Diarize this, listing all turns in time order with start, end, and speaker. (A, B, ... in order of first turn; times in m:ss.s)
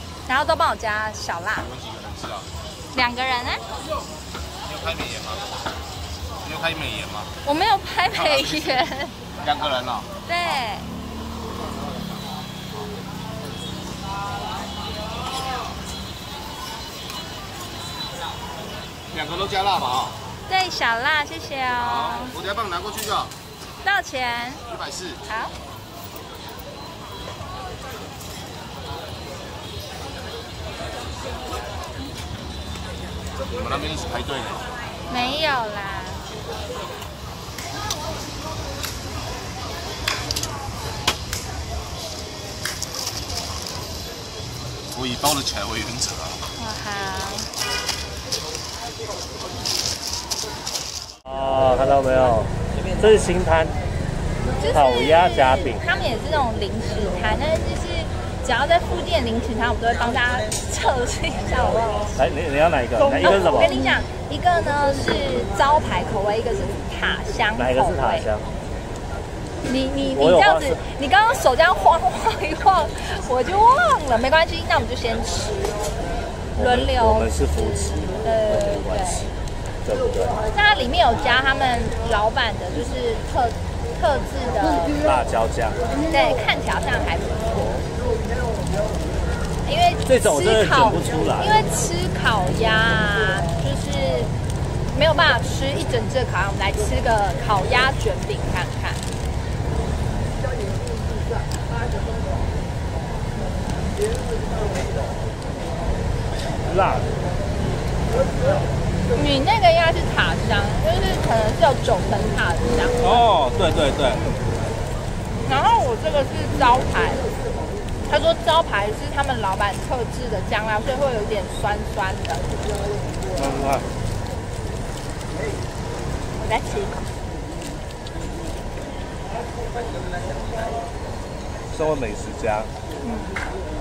0:00.3-0:01.7 A
0:01.6-0:02.5 B
0:02.9-0:03.6 A
0:04.6-0:05.5 B
0:06.4-0:07.3 B
0:07.4-0:09.2 A
0:08.1-0:08.8 B
0:09.4-0:10.1 B
0:10.3-0:10.9 A
0:19.1-0:20.1 B
0:20.5-0:22.4 A
0:21.8-0:23.3 B
0:23.8-0:24.6 A
0:24.7-0:25.2 B
0:25.3-0:25.5 A
0:33.5-0:34.7 B
0:35.1-0:36.2 A
0:44.9-0:46.4 B
0:46.6-0:47.5 A
0:51.2-0:53.8 C
0:54.6-1:02.1 A
0:54.7-0:55.8 C
1:02.2-1:03.7 C
1:03.2-1:08.3 A
1:07.6-1:08.5 C
1:09.6-1:15.9 A
1:10.2-1:10.8 C
1:16.6-1:19.3 A
1:16.6-1:19.3 C
1:19.8-1:20.4 C
1:20.5-1:25.0 A
1:25.0-1:25.8 C
1:26.0-1:27.7 A
1:29.6-1:34.3 A
1:30.1-1:31.6 C
1:34.9-1:39.0 A
1:46.6-1:47.1 C
1:49.1-1:53.2 A
1:53.0-1:54.2 C
1:54.1-1:54.4 A
1:55.5-1:57.2 A
1:58.1-2:02.4 A
2:03.3-2:03.8 C
2:06.4-2:07.0 A
2:11.7-2:12.7 C
2:13.0-2:13.4 A